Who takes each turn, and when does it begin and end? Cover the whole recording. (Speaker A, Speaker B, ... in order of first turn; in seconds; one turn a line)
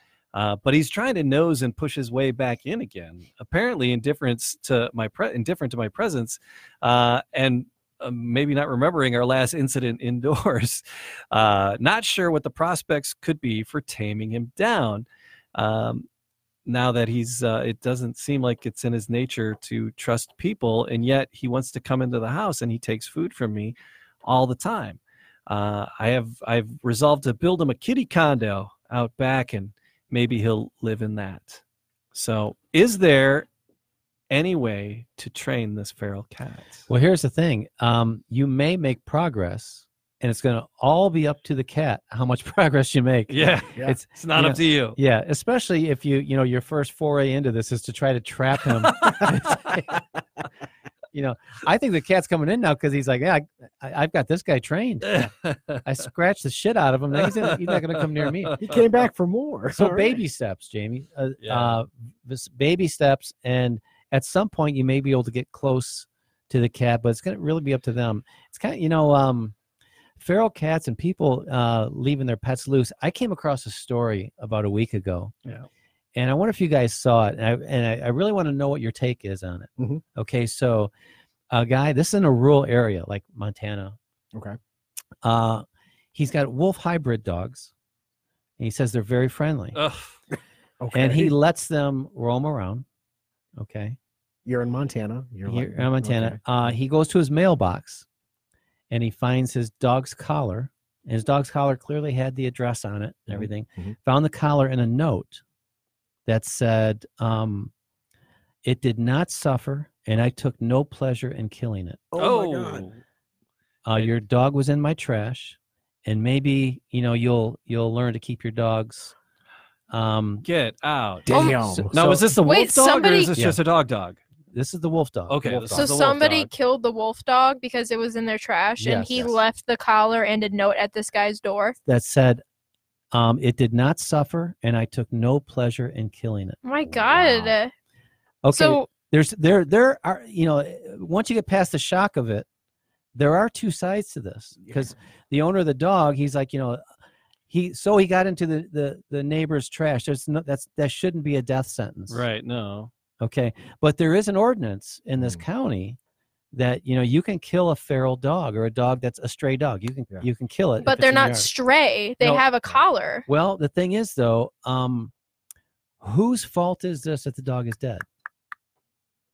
Speaker A: 0.3-16.1
Speaker A: 16.7-31.6
Speaker A: 32.1-33.5
Speaker A: 34.3-36.9
Speaker B: 36.9-49.9
Speaker A: 43.3-45.0
Speaker A: 48.9-49.6
Speaker B: 51.1-55.2
Speaker A: 55.1-55.9
Speaker B: 55.9-58.6
Speaker A: 57.2-58.8
Speaker C: 58.6-60.2
Speaker B: 59.7-69.5
Speaker A: 61.4-61.8
Speaker B: 70.2-75.3
Speaker B: 76.2-80.9
Speaker B: 81.5-84.0
Speaker B: 85.2-87.7
Speaker B: 88.6-89.8
Speaker A: 89.8-90.2
Speaker C: 90.8-91.3
Speaker B: 90.9-92.8
Speaker B: 93.6-94.0
Speaker C: 94.5-96.4
Speaker B: 95.5-98.0
Speaker B: 98.9-105.4
Speaker C: 103.3-104.0
Speaker B: 106.3-107.7
Speaker B: 108.6-112.0
Speaker C: 112.1-112.9
Speaker A: 112.2-113.0
Speaker B: 113.8-119.1
Speaker B: 119.9-120.5
Speaker A: 120.4-124.2
Speaker C: 121.3-121.9
Speaker D: 121.3-121.6
Speaker B: 121.6-122.3
Speaker D: 122.4-123.3
Speaker B: 124.5-125.9
Speaker A: 125.3-126.5
Speaker D: 125.7-131.8
Speaker B: 128.8-129.4
Speaker B: 131.9-132.4
Speaker B: 133.1-136.6
Speaker D: 136.6-137.7
Speaker C: 136.8-137.6
Speaker B: 138.4-142.5
Speaker D: 138.5-138.9
Speaker B: 143.2-146.8
Speaker C: 144.6-144.9
Speaker B: 147.5-152.2
Speaker A: 152.1-152.9
Speaker B: 153.2-156.0
Speaker C: 155.2-155.4
Speaker B: 156.5-161.5
Speaker D: 160.8-163.3
Speaker B: 162.2-162.5
Speaker B: 163.3-165.1
Speaker B: 166.0-168.1